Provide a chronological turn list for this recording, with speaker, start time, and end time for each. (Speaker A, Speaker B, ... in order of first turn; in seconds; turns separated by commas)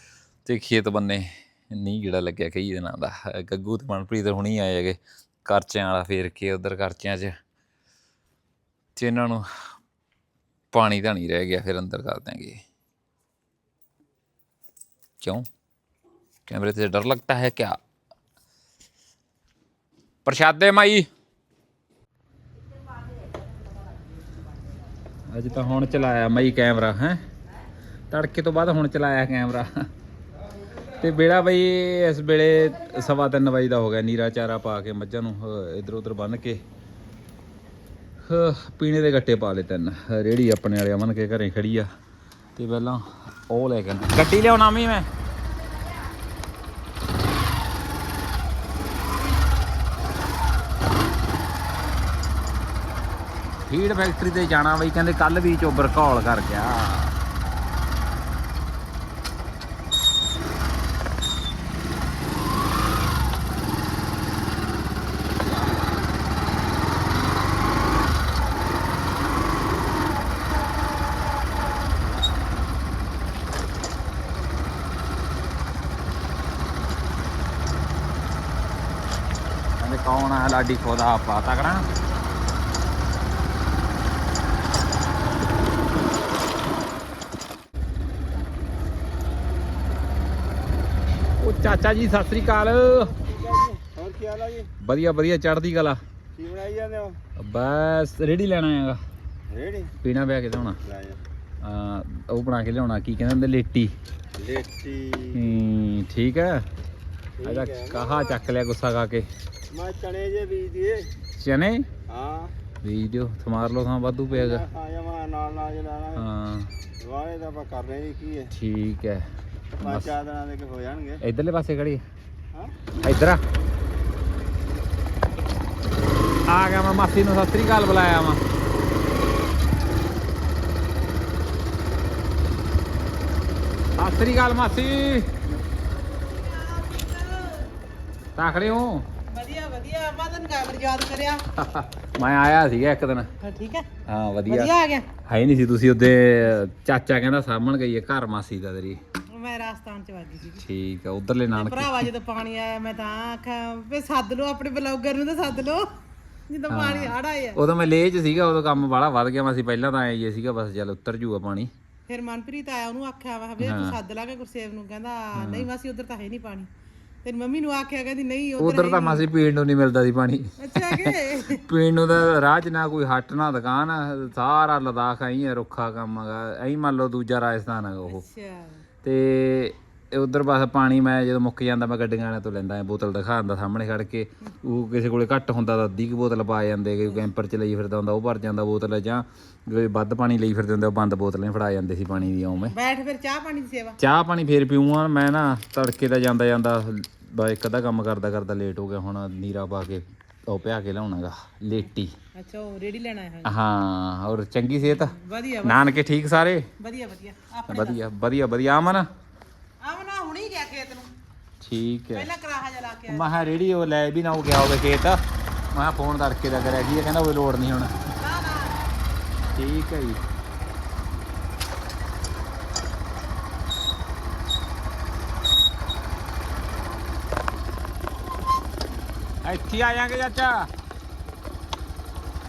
Speaker A: 0.5-7.3, Speaker A: 9.0-9.4, Speaker A: 10.7-12.6, Speaker A: 16.5-17.8, Speaker A: 20.2-21.1, Speaker A: 25.3-27.2, Speaker A: 28.1-29.7, Speaker A: 31.0-36.6, Speaker A: 38.3-41.9, Speaker A: 42.6-45.1, Speaker A: 53.7-57.1, Speaker A: 79.8-81.8, Speaker A: 91.4-93.1, Speaker B: 93.2-94.7, Speaker A: 94.8-96.0, Speaker B: 96.3-97.2, Speaker A: 97.4-99.0, Speaker B: 99.5-99.9, Speaker A: 100.0-100.8, Speaker B: 100.8-101.2, Speaker A: 101.6-103.9, Speaker B: 104.4-105.4, Speaker A: 105.3-106.7, Speaker B: 107.4-108.1, Speaker A: 107.4-109.3, Speaker B: 109.7-111.1, Speaker A: 111.4-111.9, Speaker B: 112.1-112.5, Speaker A: 112.8-114.7, Speaker B: 114.3-116.2, Speaker A: 116.2-116.7, Speaker B: 117.0-118.5, Speaker A: 118.5-119.3, Speaker B: 119.8-121.2, Speaker A: 119.8-120.1, Speaker A: 121.2-122.0, Speaker A: 123.0-123.4, Speaker A: 126.5-128.4, Speaker A: 134.0-135.3, Speaker C: 136.2-137.7, Speaker A: 138.4-139.1, Speaker C: 139.3-141.4, Speaker A: 141.6-143.3, Speaker C: 143.4-143.9, Speaker A: 144.1-144.7, Speaker C: 144.5-145.1, Speaker A: 145.3-149.0, Speaker C: 149.3-150.6, Speaker A: 150.6-152.1, Speaker C: 151.5-155.9, Speaker C: 156.5-157.6, Speaker A: 156.7-161.7, Speaker C: 162.1-166.7, Speaker A: 163.6-164.0, Speaker A: 165.4-165.7, Speaker C: 167.2-169.3, Speaker A: 168.6-178.2, Speaker C: 170.6-171.7, Speaker C: 178.1-178.8, Speaker A: 179.0-192.8, Speaker C: 192.7-194.0, Speaker A: 194.0-202.1, Speaker C: 202.4-203.5, Speaker A: 203.4-206.7, Speaker C: 204.8-205.8, Speaker C: 206.8-208.0, Speaker A: 207.7-209.1, Speaker C: 209.8-211.1, Speaker A: 211.6-212.3, Speaker C: 212.1-213.3, Speaker A: 213.1-215.2, Speaker A: 215.7-217.9, Speaker C: 218.2-218.8, Speaker A: 219.6-220.2, Speaker A: 229.4-230.7